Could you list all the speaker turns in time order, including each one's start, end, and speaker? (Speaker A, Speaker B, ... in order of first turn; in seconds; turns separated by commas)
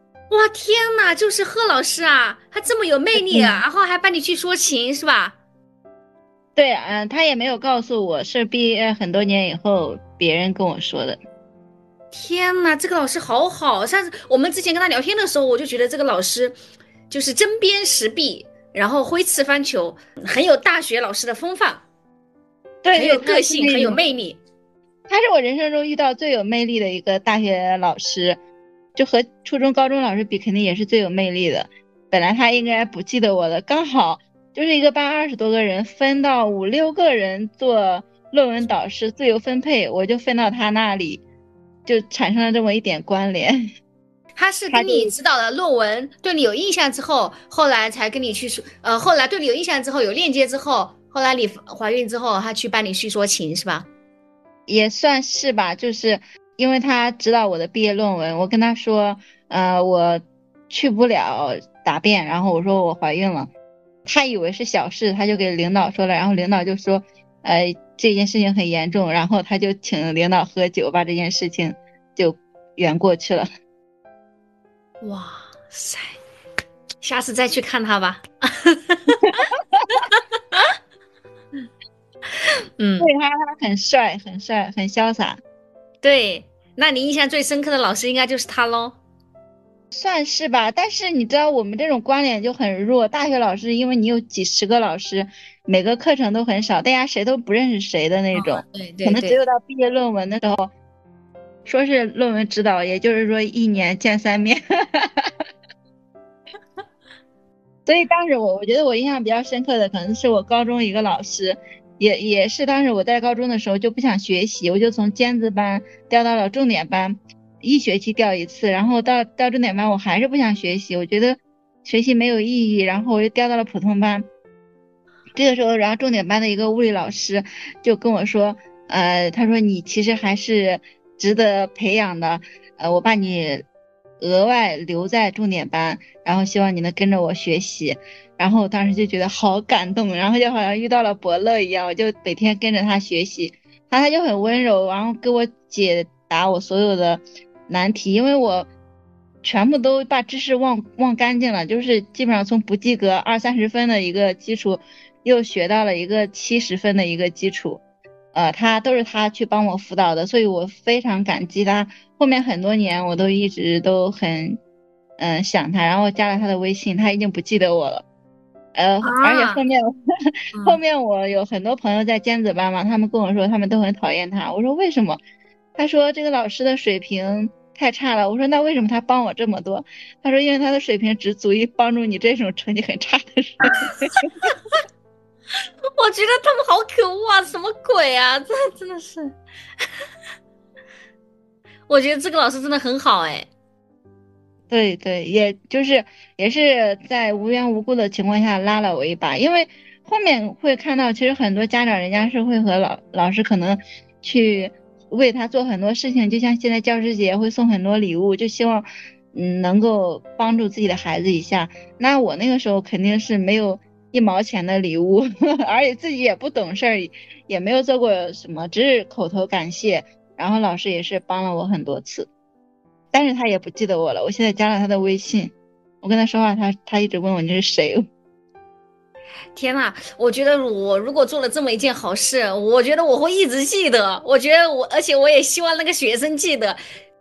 Speaker A: 0.3-5.4, Speaker B: 3.1-3.6, Speaker B: 6.5-11.2, Speaker A: 12.1-16.5, Speaker A: 17.1-21.8, Speaker B: 22.8-24.0, Speaker A: 22.9-24.4, Speaker B: 25.1-28.4, Speaker B: 28.9-41.2, Speaker B: 41.9-43.7, Speaker A: 44.4-53.9, Speaker B: 44.7-45.1, Speaker B: 54.7-63.5, Speaker B: 64.0-73.5, Speaker A: 75.0-76.2, Speaker A: 77.0-79.5, Speaker A: 80.0-80.6, Speaker A: 82.8-83.1, Speaker B: 83.0-85.4, Speaker A: 86.0-89.0, Speaker B: 89.9-100.7, Speaker A: 98.3-99.4, Speaker B: 101.6-105.3, Speaker B: 107.8-124.2, Speaker B: 125.3-133.7, Speaker B: 134.2-148.7, Speaker B: 149.4-157.8, Speaker B: 158.3-164.6, Speaker B: 165.2-168.0, Speaker B: 168.7-175.2, Speaker A: 169.0-169.6, Speaker A: 170.5-170.8, Speaker B: 175.8-184.5, Speaker A: 186.0-189.3, Speaker A: 191.9-193.5, Speaker B: 194.7-222.3, Speaker B: 223.1-228.1, Speaker A: 229.5-236.8